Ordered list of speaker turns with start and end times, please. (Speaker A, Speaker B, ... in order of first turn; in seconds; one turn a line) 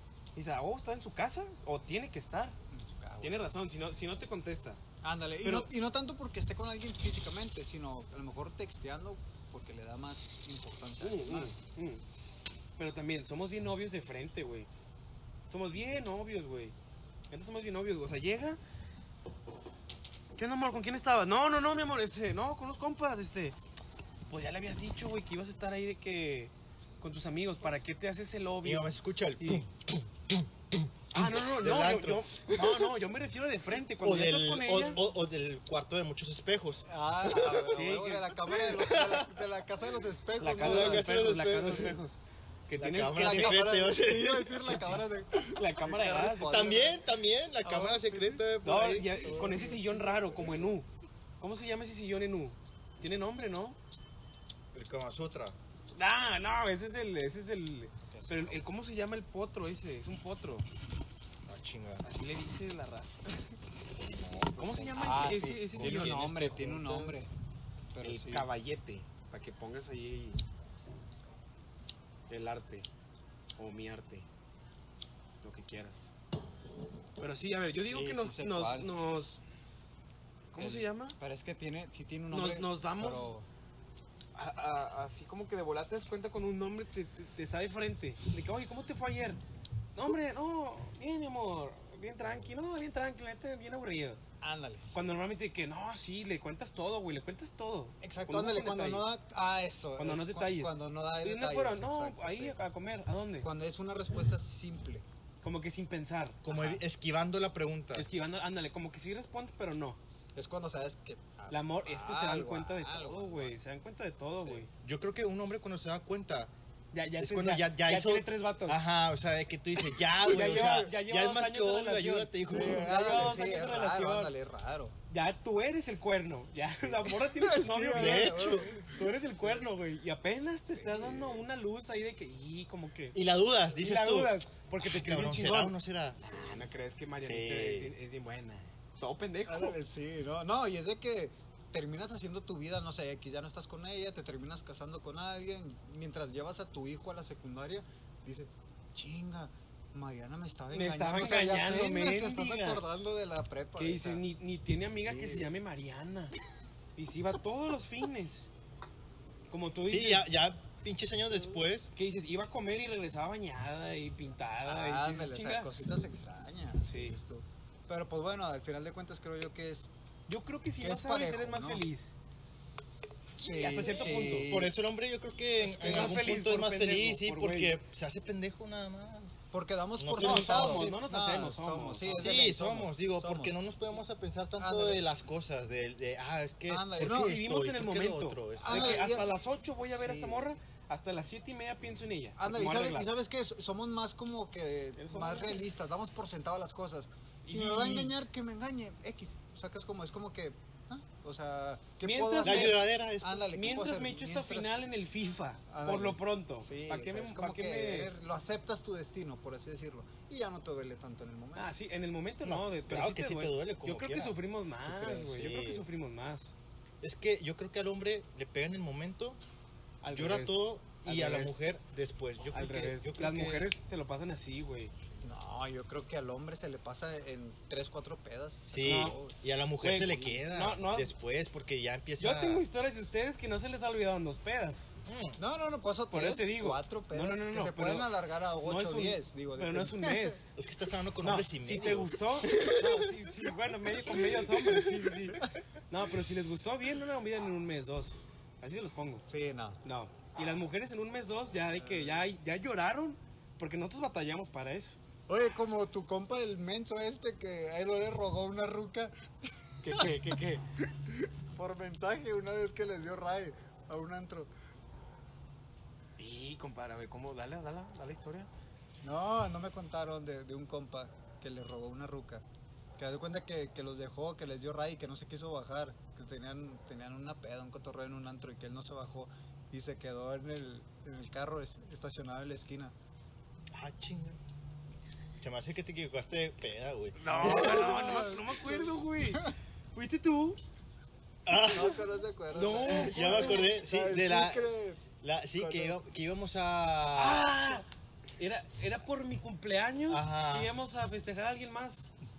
Speaker A: 0.3-2.6
Speaker B: 2.7-3.5
Speaker A: 3.2-4.8
Speaker B: 5.0-11.6
Speaker A: 5.4-5.7
Speaker A: 11.0-12.0
Speaker A: 12.8-14.7
Speaker A: 15.5-16.8
Speaker A: 17.3-18.6
Speaker A: 20.4-23.6
Speaker A: 24.3-29.7
Speaker C: 28.6-32.9
Speaker A: 31.1-35.0
Speaker C: 34.0-37.7
Speaker B: 36.9-41.9
Speaker A: 37.7-38.3
Speaker C: 38.5-39.4
Speaker A: 40.4-43.6
Speaker C: 40.5-42.0
Speaker C: 42.8-45.0
Speaker B: 43.1-47.1
Speaker A: 45.5-46.6
Speaker C: 46.4-49.4
Speaker B: 47.6-48.5
Speaker A: 48.6-50.9
Speaker B: 49.2-50.8
Speaker A: 51.4-53.8
Speaker C: 54.7-55.6
Speaker A: 55.9-60.7
Speaker B: 58.1-58.6
Speaker C: 61.5-62.1
Speaker A: 62.0-63.5
Speaker C: 63.9-66.8
Speaker A: 64.6-67.2
Speaker B: 65.0-67.3
Speaker B: 67.9-68.5
Speaker A: 68.0-70.4
Speaker A: 72.3-72.9
Speaker A: 73.6-74.3
Speaker A: 75.4-76.1
Speaker A: 77.2-79.4
Speaker B: 77.8-79.2
Speaker A: 80.5-81.2
Speaker B: 80.6-83.5
Speaker A: 82.3-83.3
Speaker A: 84.3-89.4
Speaker A: 90.0-94.2
Speaker B: 94.4-95.1
Speaker A: 94.9-99.1
Speaker B: 98.0-102.6
Speaker A: 100.0-103.5
Speaker B: 103.4-105.0
Speaker A: 105.4-106.4
Speaker C: 106.4-108.1
Speaker B: 106.5-106.8
Speaker A: 107.9-110.0
Speaker B: 110.3-113.5
Speaker A: 111.5-114.7
Speaker B: 114.4-114.7
Speaker C: 114.8-116.5
Speaker A: 116.9-118.8
Speaker C: 117.2-123.4
Speaker B: 120.1-120.9
Speaker A: 120.3-124.3
Speaker B: 122.5-125.0
Speaker A: 125.1-133.2
Speaker B: 126.8-129.1
Speaker C: 127.9-128.7
Speaker B: 130.7-131.4
Speaker C: 133.1-136.2
Speaker A: 133.8-139.8
Speaker C: 137.2-137.9
Speaker B: 139.5-154.2
Speaker A: 150.7-152.8
Speaker A: 153.8-156.4
Speaker B: 154.8-155.5
Speaker A: 157.0-158.5
Speaker A: 159.5-160.3
Speaker C: 159.9-161.9
Speaker A: 161.9-165.7
Speaker B: 164.7-169.9
Speaker A: 166.9-167.2
Speaker A: 170.3-172.1
Speaker B: 170.8-171.8
Speaker B: 173.4-174.8
Speaker A: 173.6-174.6
Speaker C: 173.7-179.4
Speaker B: 175.6-176.3
Speaker A: 175.8-177.8
Speaker B: 179.5-183.6
Speaker C: 180.0-180.9
Speaker A: 180.2-182.5
Speaker C: 182.2-189.1
Speaker B: 184.6-185.0
Speaker B: 186.7-187.4
Speaker A: 187.0-193.1
Speaker B: 188.6-190.6
Speaker B: 192.4-204.8
Speaker A: 195.0-195.6
Speaker A: 197.5-198.2
Speaker A: 202.0-202.8
Speaker C: 202.4-203.5
Speaker A: 203.5-208.1
Speaker B: 205.7-211.7
Speaker A: 211.6-216.6
Speaker C: 212.4-214.4
Speaker B: 214.9-215.5
Speaker C: 215.4-215.9
Speaker C: 217.0-219.4
Speaker A: 220.0-221.6
Speaker C: 220.1-223.7
Speaker A: 222.5-224.9
Speaker B: 225.2-230.4
Speaker C: 228.7-232.6
Speaker A: 228.8-229.2
Speaker A: 229.8-231.2
Speaker A: 232.2-234.9
Speaker C: 235.1-235.4
Speaker B: 235.4-240.4
Speaker A: 236.1-238.1
Speaker A: 238.6-240.5
Speaker C: 240.6-243.2
Speaker A: 241.2-249.2
Speaker C: 244.2-245.0
Speaker B: 249.2-249.8
Speaker A: 249.8-255.0
Speaker B: 251.8-252.3
Speaker B: 255.3-259.1
Speaker A: 259.8-260.6
Speaker B: 261.1-264.5
Speaker A: 266.2-268.5
Speaker B: 269.0-272.4
Speaker B: 273.0-282.9
Speaker C: 283.7-284.4
Speaker C: 285.4-288.1
Speaker A: 287.2-290.6
Speaker B: 287.3-289.5
Speaker C: 291.5-292.0
Speaker B: 291.7-296.0
Speaker A: 292.5-293.7
Speaker C: 292.9-294.7
Speaker C: 295.2-297.5
Speaker A: 297.1-297.9
Speaker A: 298.4-302.1
Speaker C: 300.1-300.7